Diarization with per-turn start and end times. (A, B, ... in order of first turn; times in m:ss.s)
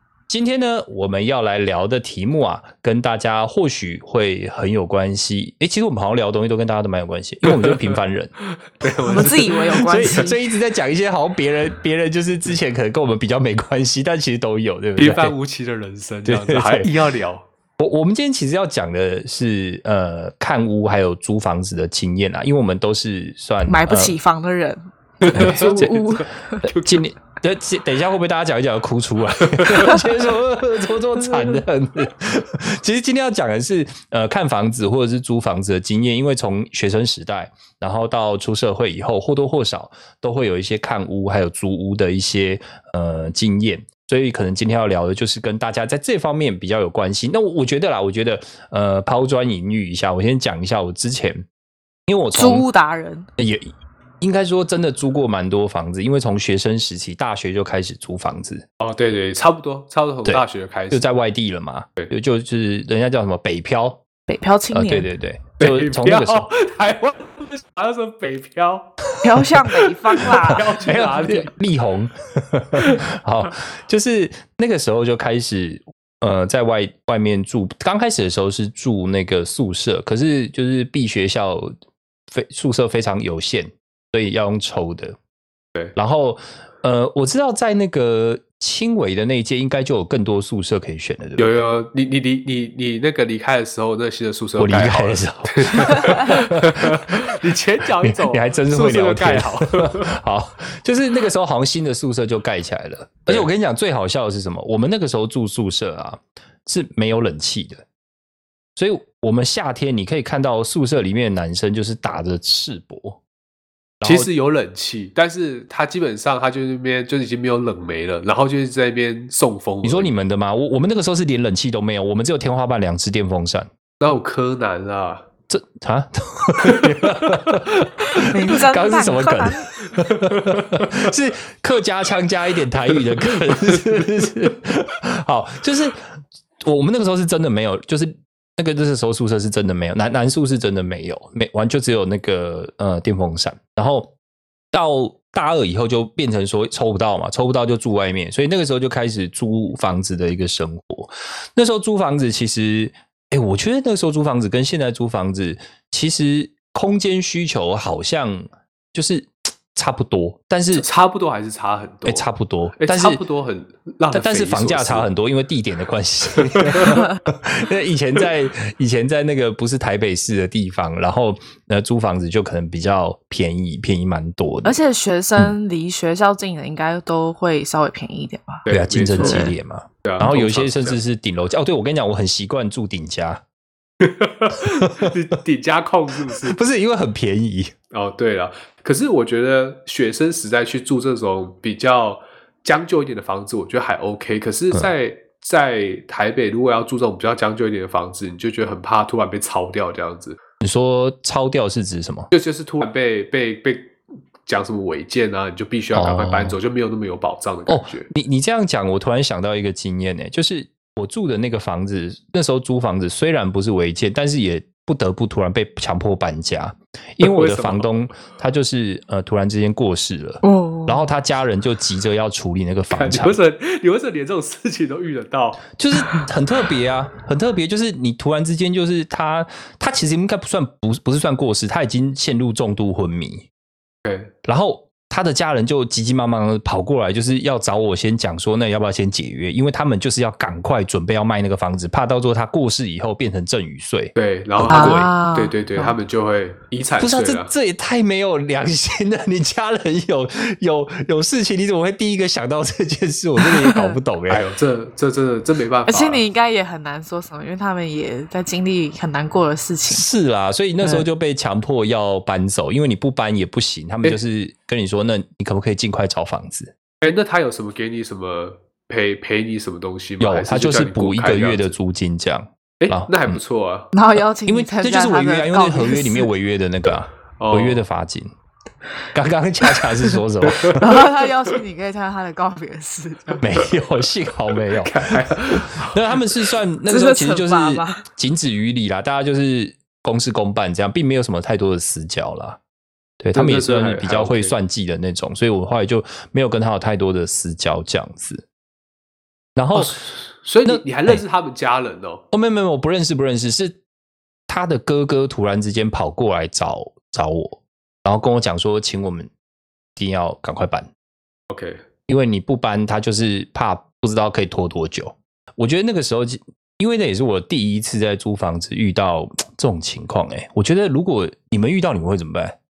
0:00.3-0:08.3 A
0:07.4-0:08.0 B
0:08.7-0:10.3 B
0:09.0-0:10.4 C
0:09.9-0:15.3 A
0:15.0-0:17.4 B
0:16.2-0:16.9 A
0:17.8-0:24.1 A
0:23.7-0:26.6 C
0:25.2-0:27.0 B
0:25.3-0:51.4 A
0:29.6-0:30.0 B
0:31.3-0:31.6 C
0:52.1-0:52.6 A
0:52.3-0:53.3 C
0:53.4-0:58.6 A
0:58.8-1:01.0 B
1:00.2-1:04.0 A
1:04.3-1:05.1 C
1:04.7-1:06.5 A
1:05.6-1:09.1 B
1:09.2-1:10.6 C
1:09.7-1:21.7 A
1:10.2-1:11.5 B
1:22.3-1:25.2 A
1:25.9-1:31.5 A
1:31.4-1:40.1 B
1:34.6-1:37.2 A
1:38.0-1:47.8 A
1:48.8-1:53.2 A
1:54.0-1:54.3 A
1:54.0-2:00.1 B
1:59.8-2:03.7 A
2:04.0-2:05.2 B
2:05.5-2:16.1 A
2:06.6-2:07.9 B
2:08.2-2:09.7 C
2:10.1-2:11.1 B
2:13.1-2:14.0 B
2:16.6-2:24.1 A
2:24.7-2:40.9 A
2:40.7-2:45.1 B
2:42.0-2:43.2 A
2:44.1-2:54.8 A
2:46.4-2:47.0 B
2:54.6-2:59.5 C
2:58.6-3:01.0 B
2:58.7-3:03.4 A
3:04.0-3:06.6 B
3:04.6-3:05.1 A
3:06.3-3:07.7 A
3:07.9-3:20.4 B
3:20.6-3:22.3 A
3:22.3-3:28.1 B
3:25.9-3:26.6 A
3:27.7-3:43.4 A
3:37.2-3:37.9 B
3:40.4-3:41.0 C
3:42.9-3:45.7 B
3:45.8-3:53.5 A
3:54.0-3:54.3 B
3:54.4-4:05.1 A
4:04.2-4:07.5 B
4:04.7-4:05.9 C
4:07.0-4:14.4 A
4:13.4-4:14.0 C
4:14.3-4:16.2 B
4:15.9-4:20.0 C
4:19.9-4:26.7 A
4:27.0-4:31.7 B
4:30.2-4:33.4 A
4:32.8-4:33.9 B
4:33.9-4:36.3 C
4:34.4-4:38.3 A
4:37.4-4:37.8 B
4:39.1-4:41.0 A
4:40.5-4:40.8 B
4:40.7-4:43.4 C
4:43.4-4:52.6 A
4:44.8-4:46.4 B
4:46.9-4:48.0 C
4:53.2-4:58.4 A
4:53.3-4:54.5 B
4:59.6-5:00.0 A
4:59.7-5:02.2 B
5:00.6-5:01.2 A
5:02.3-5:03.8 A
5:04.5-5:09.3 A
5:10.0-5:10.9 A
5:11.5-5:11.8 B
5:12.1-5:22.6 A